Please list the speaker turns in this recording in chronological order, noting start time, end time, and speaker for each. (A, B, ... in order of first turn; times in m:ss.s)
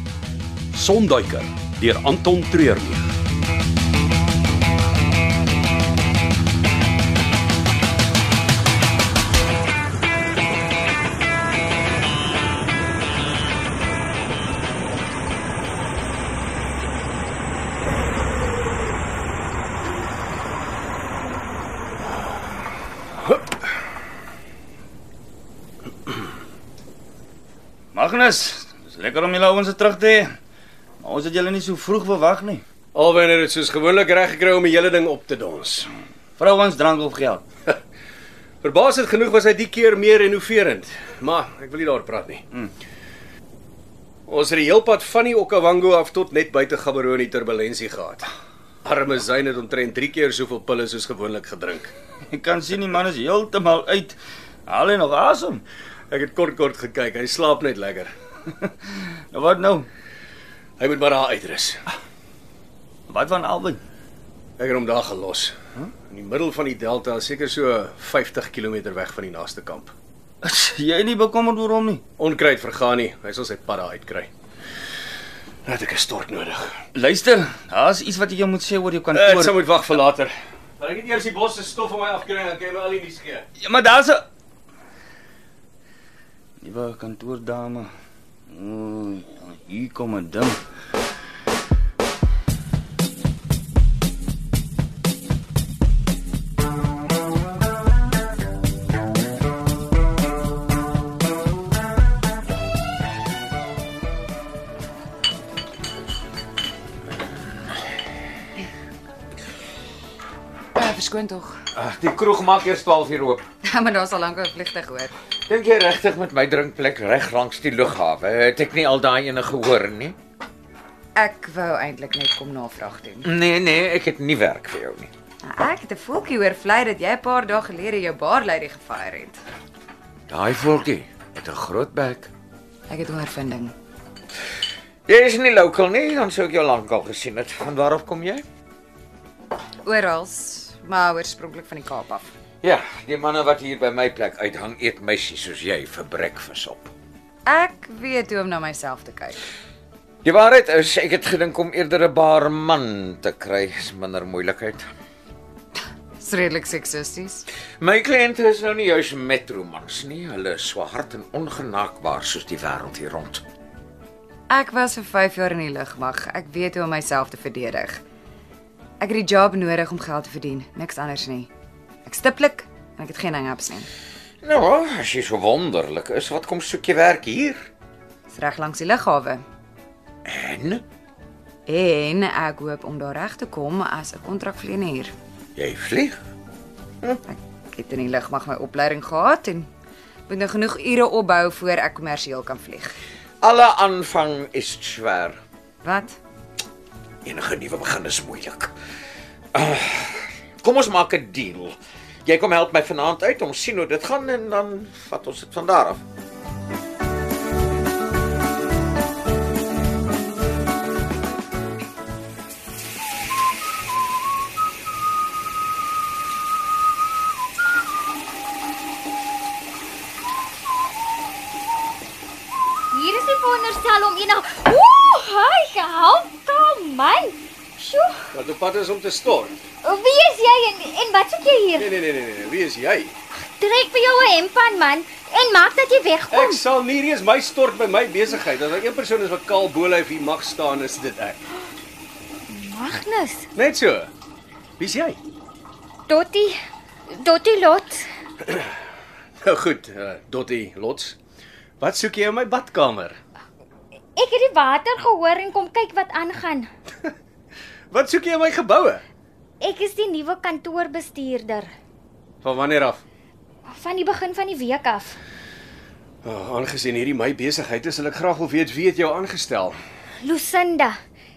0:00.7-0:03.0 A
0:27.9-0:30.3 B
0:31.0-0:32.6 B
0:32.9-0:35.9 C
0:36.4-0:37.4 B
0:38.6-0:42.4 C
0:44.3-0:48.3 C
0:48.8-0:51.9 C
0:52.3-0:55.6 B
0:56.1-0:58.1 C
0:58.6-0:59.9 B
1:00.8-1:01.8 C
1:03.1-1:03.8 B
1:04.6-1:05.5 C
1:06.1-1:09.9 C
1:10.4-1:12.0 B
1:12.2-1:14.3 C
1:15.6-1:16.8 C
1:16.9-1:19.6 B
1:19.1-1:23.4 C
1:23.6-1:24.2 B
1:26.6-1:27.9 B
1:28.5-1:30.6 B
1:50.7-1:51.6 D
1:51.7-1:53.4 E
1:53.6-1:55.1 D
1:55.5-2:00.2 E
2:01.2-2:03.3 D
2:03.2-2:05.1 E
2:05.4-2:09.4 D
2:10.3-2:12.3 E
2:12.9-2:13.7 D
2:15.1-2:18.4 E
2:19.8-2:22.3 D
2:22.6-2:26.9 E
2:27.4-2:29.4 D
2:30.2-2:34.9 E
2:36.2-2:37.4 D
2:37.8-2:43.4 E
2:44.5-2:48.0 D
2:49.0-2:51.5 D
2:52.0-2:53.9 D
2:54.4-2:57.7 E
2:58.3-2:59.4 D
3:00.2-3:00.8 E
3:01.6-3:05.1 D
3:05.6-3:06.2 E
3:07.3-3:09.7 D
3:10.3-3:13.0 D
3:13.4-3:15.4 E
3:15.8-3:16.2 D
3:17.2-3:18.7 E
3:19.5-3:26.0 E
3:42.9-3:48.2 F
3:48.3-3:49.6 C
3:49.8-3:51.9 F
3:51.8-3:53.2 C
3:53.3-3:56.6 F
3:56.3-4:01.4 C
4:02.5-4:03.5 F
4:03.5-4:04.1 C
4:04.8-4:05.2 C
4:06.1-4:06.6 F
4:07.2-4:08.1 F
4:09.4-4:11.2 C
4:11.8-4:13.2 C
4:14.2-4:16.7 F
4:17.9-4:19.0 C
4:19.6-4:21.7 F
4:22.4-4:23.0 C
4:23.6-4:25.2 F
4:26.2-4:29.8 C
4:30.2-4:31.0 F